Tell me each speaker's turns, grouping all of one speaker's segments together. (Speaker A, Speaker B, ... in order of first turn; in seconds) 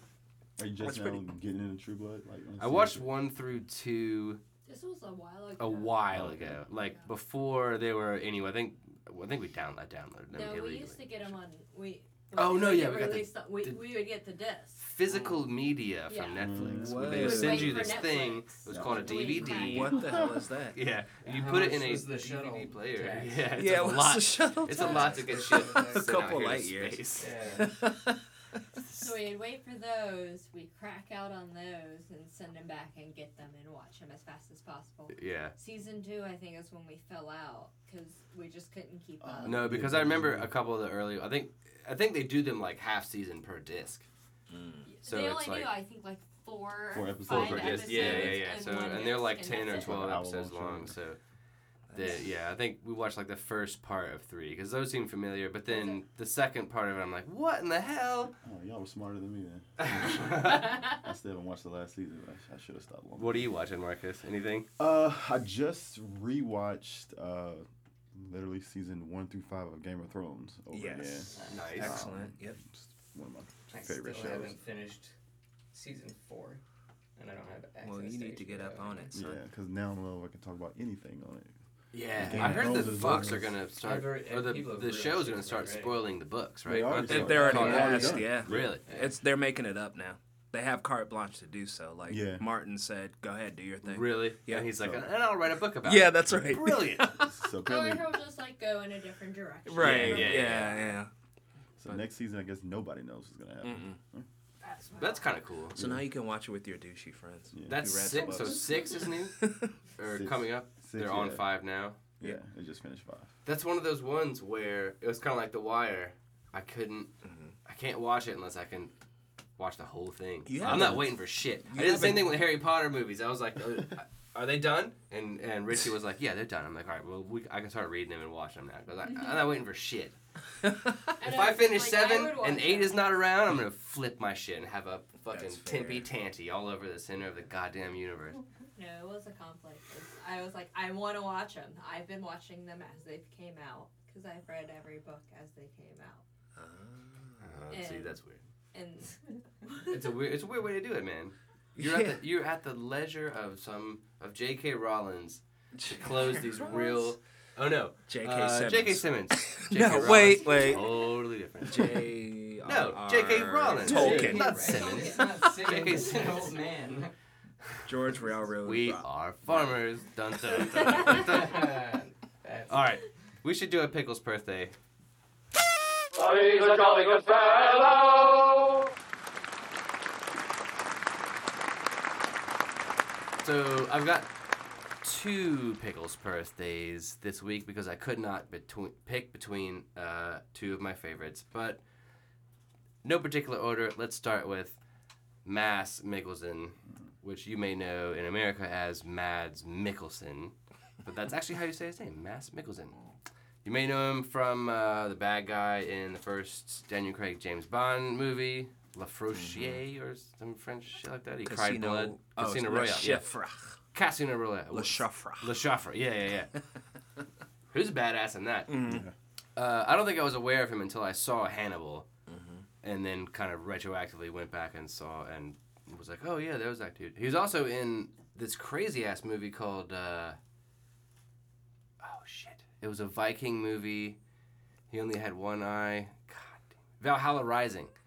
Speaker A: 0.6-3.1, 6.1-6.6, 16.4-17.6, 18.7-19.3, 19.9-20.3, 39.2-40.5, 46.9-48.6, 49.5-51.0, 58.4-63.5, 64.8-74.6, 79.1-81.6, 82.2-83.5, 86.7-88.8, 92.1-92.5, 97.2-98.2, 101.8-104.3, 107.5-108.5, 110.1-111.5, 112.2-113.3, 218.9-219.1
Speaker B: 2.6-4.4, 5.6-11.2, 12.3-13.8, 14.8-20.2, 20.8-27.4, 35.1-35.5, 39.5-44.1, 45.0-45.7, 47.3-51.2, 51.9-58.4, 59.8-60.8, 63.2-64.7, 71.5-72.0, 81.9-88.8, 93.8-97.1, 99.8-100.8, 105.0-105.8, 107.7-109.4, 110.0-112.2, 113.5-117.1, 117.7-118.9, 119.6-130.2, 131.2-138.4, 147.4-148.4, 149.9-162.1, 162.6-166.6, 168.6-171.7, 172.7-174.7, 176.2-178.8, 183.4-184.3, 185.0-191.8, 193.0-194.8, 195.4-203.0, 203.6-213.3, 213.9-216.5, 217.7-218.7, 219.6-222.1, 222.8-230.4, 232.0-234.2, 234.9-237.9
Speaker C: 4.7-6.1, 6.8-7.1, 10.3-14.9, 16.1-16.4, 17.2-20.0, 28.9-39.7, 44.9-50.1, 55.7-56.0, 97.7-100.9, 104.6-105.3, 131.2-133.1, 138.8-146.2, 147.7-148.2, 148.7-149.9, 156.7-157.1, 160.5-160.8, 164.7-165.5
Speaker D: 16.5-18.1, 19.4-20.8, 23.6-28.2, 44.5-44.9, 51.9-52.2, 70.7-72.6, 77.8-79.3, 82.2-83.0, 87.0-94.9, 95.8-97.4, 99.7-101.1, 103.6-104.0, 105.7-109.8, 117.2-117.6, 120.5-122.4, 130.7-131.1, 135.3-136.1, 146.6-147.6, 151.8-152.2, 155.7-156.9, 158.1-161.0, 161.7-164.8, 167.8-169.7, 209.3-209.8, 211.4-213.8, 214.7-215.6, 218.7-219.1, 222.3-222.7
Speaker E: 21.2-23.5, 24.7-26.4, 27.2-27.7, 71.3-72.3, 73.7-75.2, 75.7-76.6, 77.2-79.2, 83.8-86.0, 87.2-89.2, 163.7-167.1, 171.0-173.0